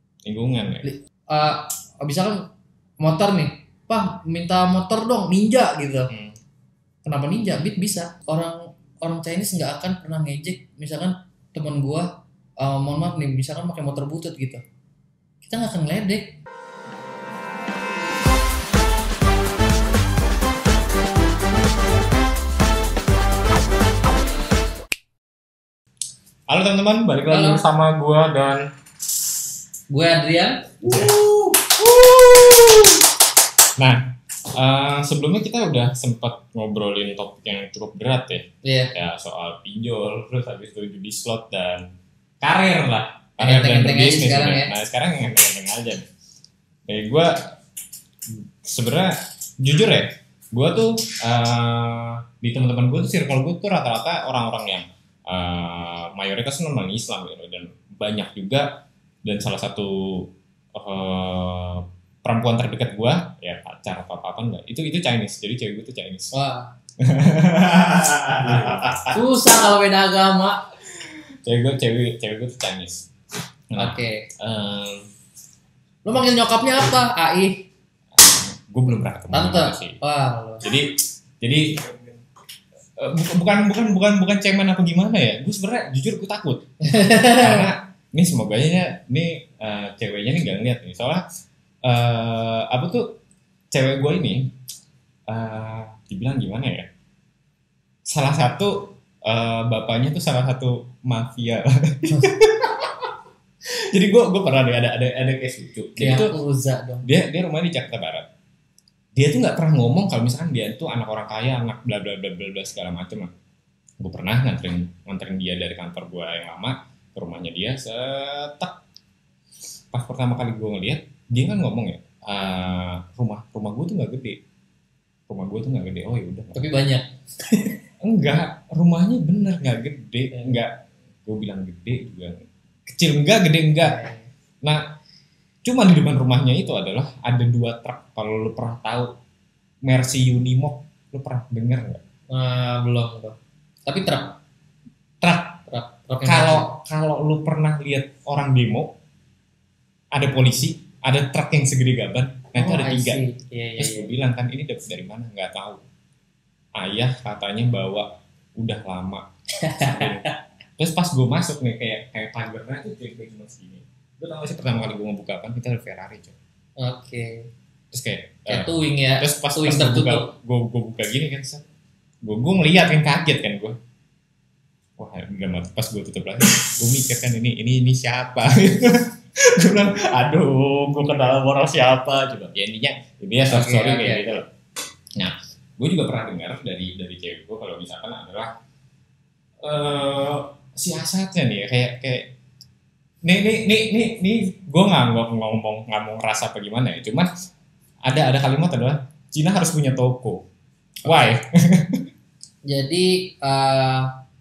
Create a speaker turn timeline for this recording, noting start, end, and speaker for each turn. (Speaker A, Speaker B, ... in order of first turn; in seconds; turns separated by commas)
Speaker A: 0.2-0.9, Speaker B: 0.8-2.4, Speaker B: 3.0-6.1, Speaker A: 6.1-6.3, Speaker B: 7.0-12.1, Speaker B: 12.6-14.6, Speaker B: 15.4-16.4, Speaker A: 26.5-28.7, Speaker B: 27.3-27.6, Speaker B: 29.9-31.3, Speaker A: 30.8-33.1, Speaker A: 33.8-41.9, Speaker B: 38.6-38.9, Speaker A: 42.4-46.0, Speaker B: 43.4-44.7, Speaker A: 46.9-47.5, Speaker A: 48.3-66.3, Speaker B: 66.3-66.7, Speaker A: 67.0-69.2, Speaker B: 69.1-70.6, Speaker A: 71.0-73.0, Speaker A: 73.7-75.1, Speaker B: 73.8-74.2, Speaker B: 76.0-77.6, Speaker A: 78.2-80.0, Speaker B: 79.3-80.7, Speaker A: 80.6-81.9, Speaker A: 83.0-91.2, Speaker B: 86.8-87.7, Speaker A: 91.8-93.2, Speaker A: 93.7-94.5, Speaker A: 95.3-96.9, Speaker A: 98.0-103.1, Speaker A: 103.6-106.3, Speaker B: 106.0-107.1, Speaker A: 107.0-108.3, Speaker A: 109.1-113.3, Speaker A: 114.0-118.8, Speaker A: 119.9-124.4, Speaker A: 125.3-126.7, Speaker B: 126.5-127.8, Speaker A: 128.0-134.0, Speaker B: 133.8-134.3, Speaker A: 135.6-139.1, Speaker A: 139.8-142.0, Speaker B: 142.3-143.3, Speaker B: 143.9-144.4, Speaker B: 145.2-146.7, Speaker A: 146.2-148.9, Speaker A: 150.1-153.2, Speaker B: 152.6-154.1, Speaker A: 153.8-155.8, Speaker A: 156.8-160.2, Speaker B: 159.6-160.4, Speaker A: 160.8-166.4, Speaker B: 166.8-167.5, Speaker A: 167.9-171.6, Speaker B: 168.5-170.3, Speaker A: 172.2-173.8, Speaker A: 175.0-184.5, Speaker B: 183.5-184.4, Speaker A: 185.2-188.5, Speaker A: 189.6-192.3, Speaker A: 193.2-197.3, Speaker A: 198.0-200.4, Speaker A: 201.1-202.1, Speaker B: 201.1-201.3, Speaker B: 202.7-204.1